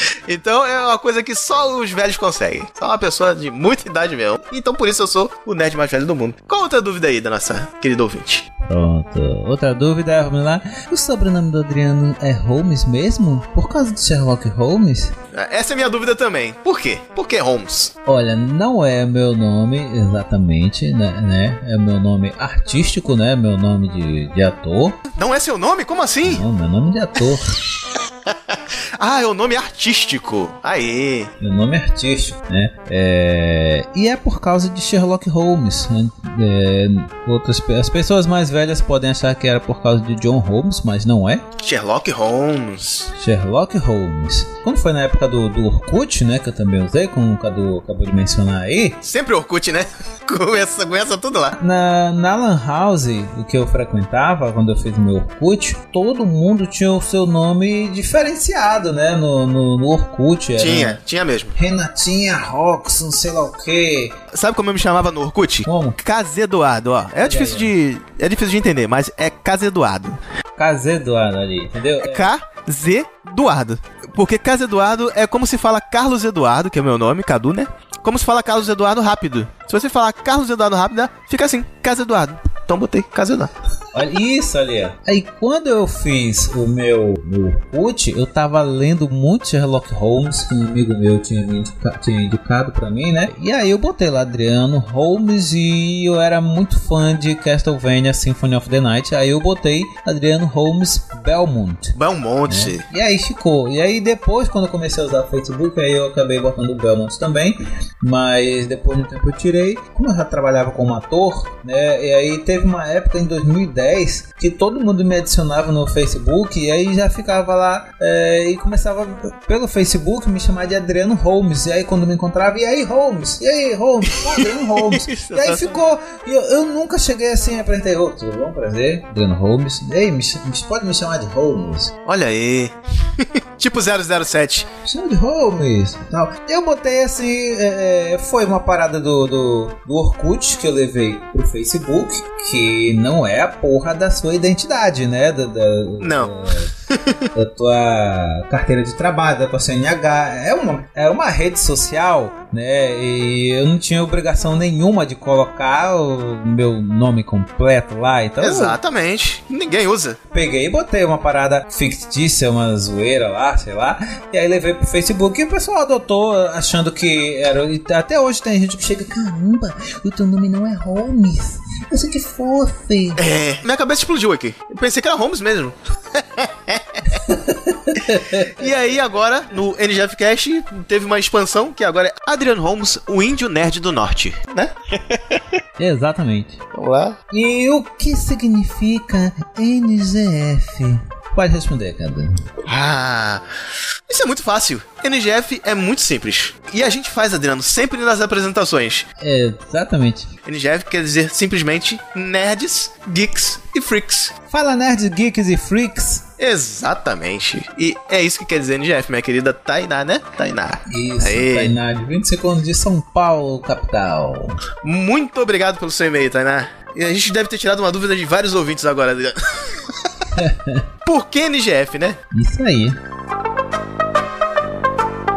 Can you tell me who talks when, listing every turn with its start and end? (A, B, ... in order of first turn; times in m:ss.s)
0:00.3-0:08.5 A
0:08.6-0:15.2 B
0:15.3-0:17.9 A
0:18.0-0:25.0 B
0:25.1-0:26.4 A
0:26.2-0:27.4 B
0:28.5-0:31.3 A
0:31.4-0:41.4 B
0:41.6-0:43.1 A
0:43.1-0:49.0 B
0:49.0-0:51.5 A
0:51.5-1:01.0 B
1:00.6-1:01.5 A
1:01.5-1:04.1 B
1:04.3-1:10.2 A
1:05.7-1:06.0 B
1:07.2-1:07.7 B
1:10.6-1:12.3 B
1:12.0-1:23.5 A
1:23.9-1:41.9 B
1:41.9-1:42.8 A
1:42.5-2:11.9 B
2:04.3-2:05.8 A
2:12.0-2:14.7 A
2:14.8-2:26.7 B
2:26.0-2:26.3 A
2:27.3-2:38.8 B
2:38.4-2:40.2 A
2:40.3-2:53.2 B
2:53.2-2:57.0 A
2:57.3-2:58.6 B
2:58.6-3:05.4 A
3:05.8-3:06.6 B
3:06.7-3:07.2 A
3:07.3-3:12.3 B
3:12.6-3:13.4 A
3:14.1-3:19.0 A
3:19.2-3:20.3 B
3:20.4-3:24.3 A
3:24.5-3:26.2 B
3:26.4-3:31.7 A
3:30.9-3:34.6 B
3:34.8-3:39.7 A
3:40.4-3:40.8 B
3:41.0-3:42.2 A
3:42.3-3:43.0 B